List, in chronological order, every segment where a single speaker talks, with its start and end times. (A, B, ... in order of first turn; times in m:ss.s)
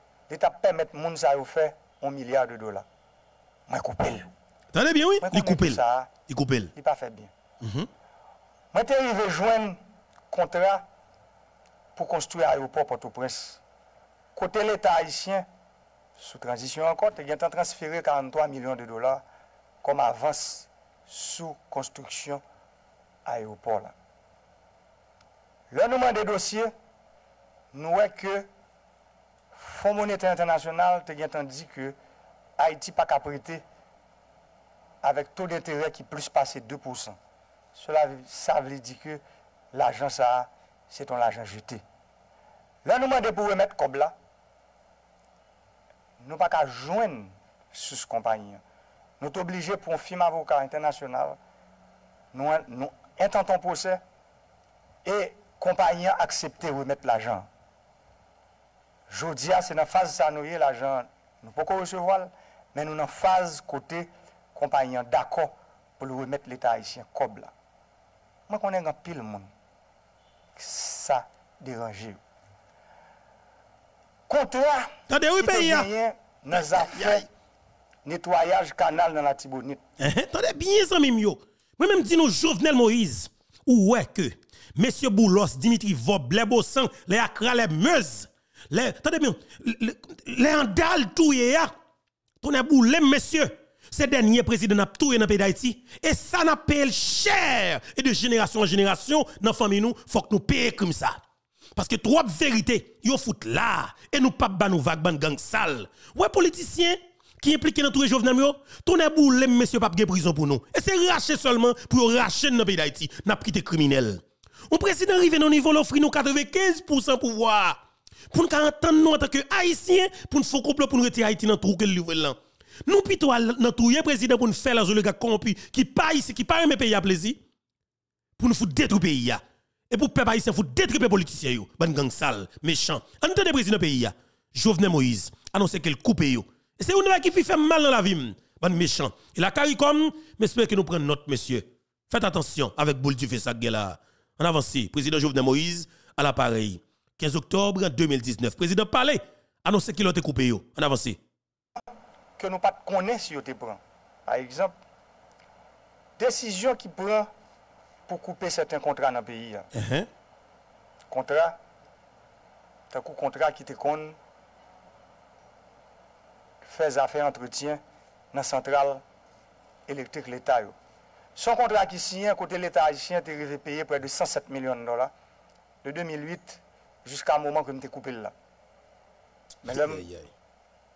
0:00.3-0:02.8 A
0:03.7-0:04.3 A
0:04.7-0:06.7 B
0:05.2-0:06.1 A
0:06.7-0:07.3 A
0:07.6-0:07.9 B
0:08.7-0:09.8 A
0:10.3-0:10.8 A
0:12.0-0:13.6 A
0:14.3-0:15.4 A
0:16.2-0:19.2 A
0:19.8-0:22.4 A
0:23.2-0:23.9 A
0:25.7-0:26.7 A
0:27.7-0:28.5 A
0:29.5-0:32.0 A
0:32.6-0:33.6 A
0:35.0-0:37.2 A
0:37.7-0:41.8 A
0:42.8-0:44.1 A
0:46.2-0:48.6 A
0:49.2-0:51.4 A
0:52.3-0:54.0 A
0:55.0-0:57.5 A
0:59.1-1:07.5 A
1:08.5-1:09.5 A
1:10.6-1:12.2 A
1:14.3-1:17.3 A
1:15.1-1:15.9 B
1:16.6-1:17.2 B
1:18.0-1:19.8 A
1:20.0-1:31.7 B
1:32.4-1:41.2 B
1:41.8-1:57.8 B
1:58.3-2:07.4 B
2:08.4-2:31.2 B
2:32.4-2:34.7 A
2:36.2-2:37.3 A
2:38.1-2:39.7 A
2:39.7-2:40.1 B
2:41.1-2:41.6 A
2:42.9-2:44.2 A
2:46.6-2:47.8 A
2:48.3-2:49.0 A
2:49.9-2:50.8 A
2:51.4-2:55.1 A
2:55.8-2:58.3 A
2:59.6-3:00.0 A
2:59.6-3:00.3 B